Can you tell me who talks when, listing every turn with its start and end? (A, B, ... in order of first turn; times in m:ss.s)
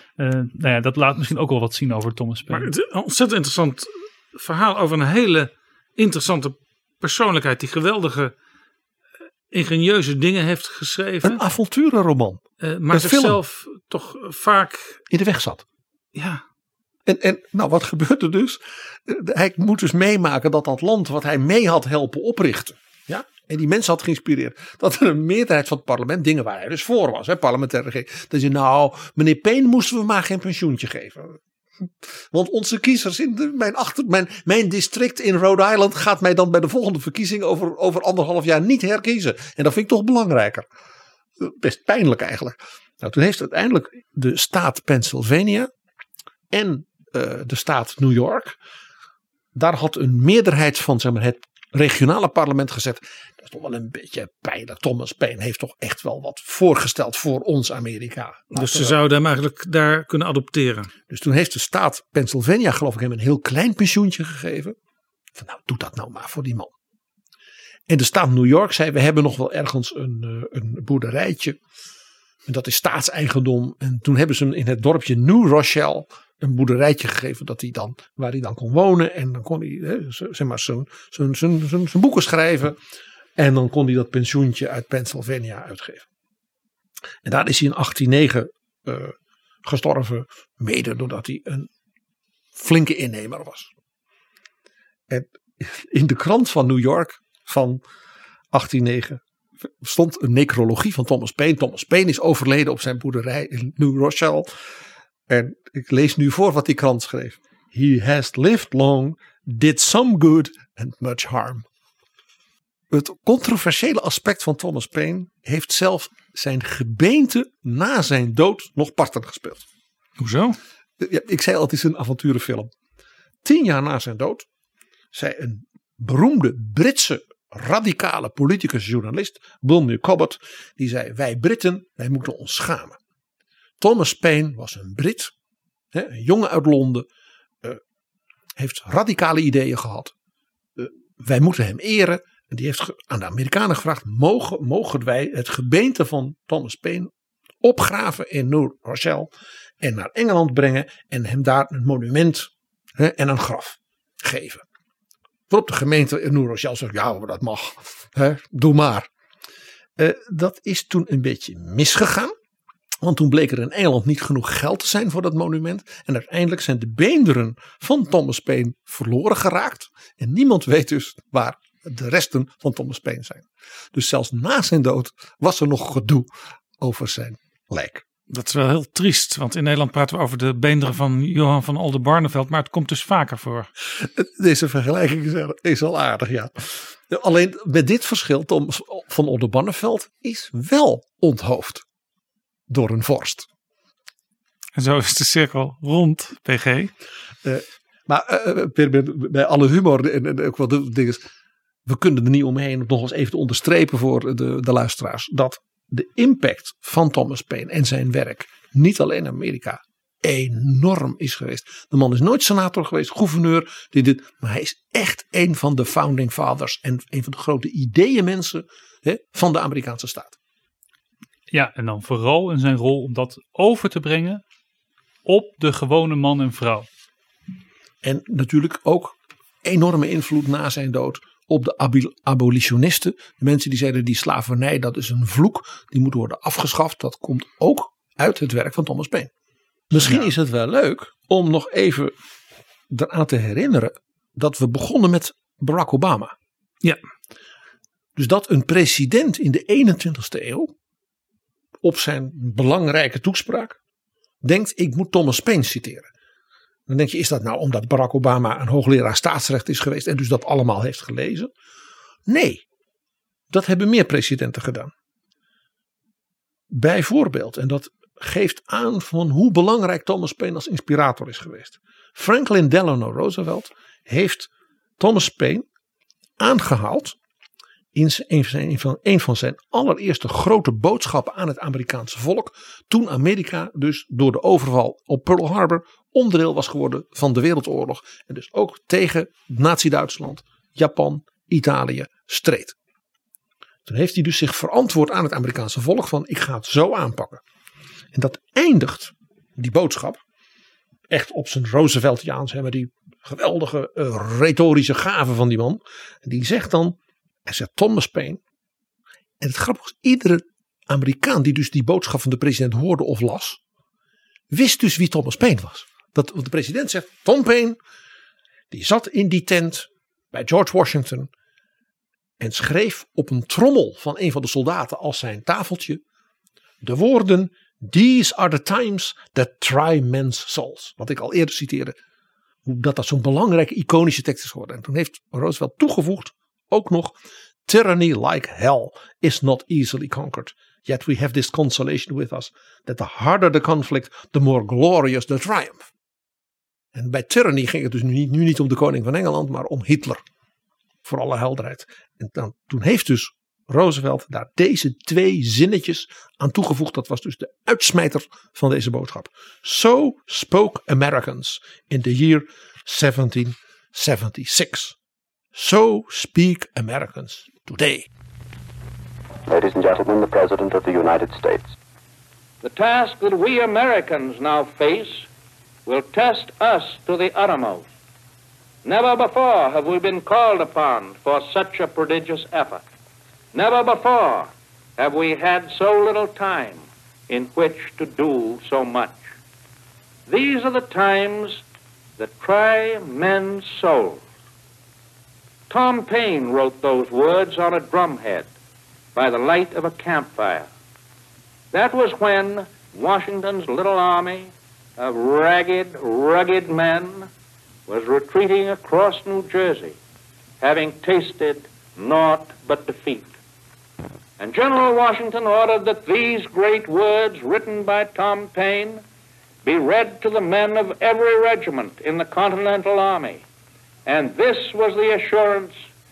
0:00.2-0:02.7 A
0:02.5-0:08.3 B
0:09.5-0:11.4 B
0:11.2-0:13.4 C
0:12.6-0:15.0 B
0:15.1-0:15.6 C
0:16.1-0:16.4 B
0:17.0-0:40.7 C
0:41.4-0:45.7 C
0:46.5-0:48.6 C
0:49.5-0:59.0 C
0:58.5-1:00.9 B
1:01.1-1:04.8 C
1:05.3-1:06.7 C
1:07.9-1:11.6 C
1:12.4-1:22.8 C
1:23.4-1:26.0 C
1:27.2-1:31.7 C
1:32.5-1:33.7 C
1:35.1-1:37.8 C
1:38.5-1:39.2 C
1:39.8-1:44.5 C
1:45.3-1:51.6 C
1:52.9-1:59.6 C
2:00.2-2:00.6 B
2:01.0-2:02.7 C
2:03.4-2:04.4 C
2:05.1-2:13.0 C
2:13.8-2:15.3 C
2:15.9-2:17.1 C
2:18.6-2:20.1 C
2:20.8-2:27.1 C
2:27.6-2:34.6 C
2:35.5-2:39.1 C
2:40.0-2:42.3 C
2:43.0-2:58.0 C
2:58.3-3:03.7 B
3:04.0-3:11.8 C
3:12.7-3:13.5 C
3:14.7-3:16.9 B
3:17.4-3:21.2 C
3:21.8-3:40.4 C
3:41.5-3:44.4 A
3:45.2-3:46.9 A
3:48.0-3:59.3 C
3:59.9-4:02.1 C
3:59.9-4:00.3 B
4:02.9-4:06.3 C
4:08.1-4:10.7 C
4:11.8-4:13.8 C
4:14.4-4:16.1 C
4:16.9-4:21.5 C
4:22.3-4:22.6 C
4:23.5-4:24.9 C
4:26.7-4:35.6 C
4:36.4-4:37.2 C
4:37.9-4:52.8 C
4:53.8-4:57.4 C
4:58.1-5:00.2 C
5:01.1-5:08.4 C
5:09.4-5:13.6 C
5:14.5-5:17.8 C
5:18.7-5:21.3 C
5:22.4-5:26.0 C
5:26.8-5:32.0 C
5:32.6-5:45.9 C
5:46.9-5:50.2 C
5:51.0-6:05.0 C
6:05.5-6:08.1 C
6:09.4-6:11.7 D
6:12.6-6:15.3 E
6:15.8-6:17.9 E
6:18.8-6:22.8 E
6:23.5-6:29.2 E
6:30.3-6:31.6 E
6:32.2-6:34.2 E
6:35.7-6:38.5 E
6:39.1-6:40.7 E
6:41.7-6:47.3 E
6:47.9-6:50.0 E
6:50.6-6:53.3 E
6:54.4-6:59.0 E
6:59.6-7:03.4 E
7:04.0-7:05.7 E